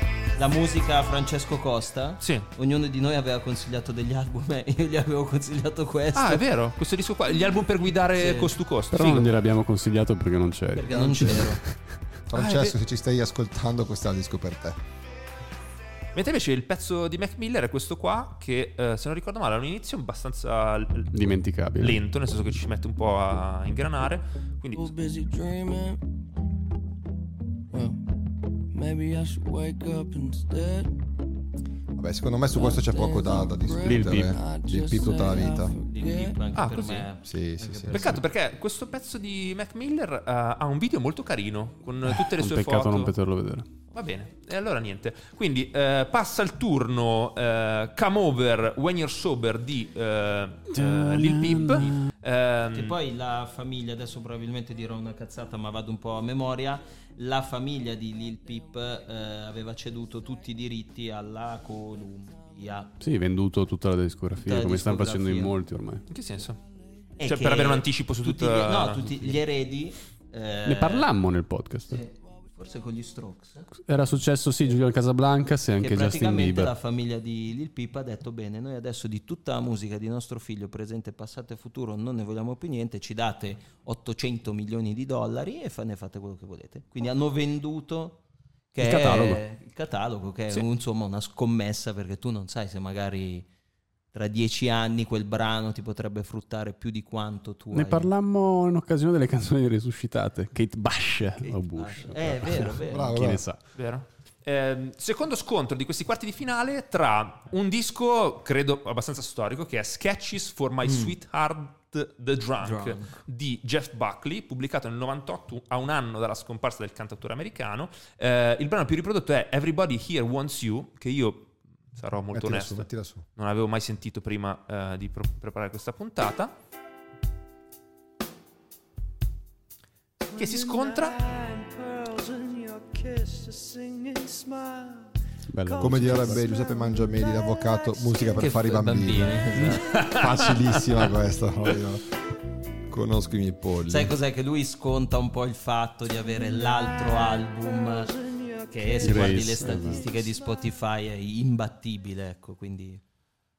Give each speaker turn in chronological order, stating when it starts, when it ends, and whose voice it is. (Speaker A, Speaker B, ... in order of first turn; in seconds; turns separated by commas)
Speaker A: 0.3-6.5, Speaker B: 2.2-2.5, Speaker B: 6.2-9.3, Speaker A: 8.2-8.5, Speaker C: 8.9-11.8, Speaker A: 10.7-11.6, Speaker D: 12.3-14.8, Speaker B: 12.3-12.8, Speaker B: 16.1-24.9, Speaker C: 21.1-22.0, Speaker E: 24.7-26.0, Speaker E: 27.7-28.0, Speaker E: 28.7-30.9, Speaker D: 32.0-35.8, Speaker E: 32.5-36.4, Speaker C: 33.8-34.4, Speaker A: 35.9-38.2, Speaker B: 36.6-37.1, Speaker D: 37.2-38.2, Speaker B: 37.9-43.1, Speaker C: 42.0-43.7, Speaker B: 43.9-53.0, Speaker C: 50.7-52.0, Speaker A: 52.7-63.0, Speaker C: 63.0-66.0, Speaker A: 64.4-65.5, Speaker B: 66.1-66.6, Speaker A: 67.2-71.1, Speaker B: 67.2-69.1, Speaker C: 70.7-72.0, Speaker A: 71.9-73.7, Speaker C: 73.8-76.7, Speaker A: 75.8-88.2, Speaker A: 88.7-93.5, Speaker C: 88.8-89.4, Speaker A: 94.1-98.1, Speaker C: 97.7-103.6, Speaker A: 101.4-103.2, Speaker D: 102.9-103.5, Speaker B: 103.8-126.6, Speaker A: 110.8-111.2, Speaker A: 112.6-113.2, Speaker D: 122.3-123.2, Speaker B: 130.3-131.2, Speaker E: 131.3-135.0, Speaker C: 135.5-136.4, Speaker D: 135.8-142.1, Speaker A: 138.4-139.9, Speaker B: 139.8-140.7, Speaker D: 142.9-144.2, Speaker A: 143.9-153.0, Speaker C: 149.0-150.1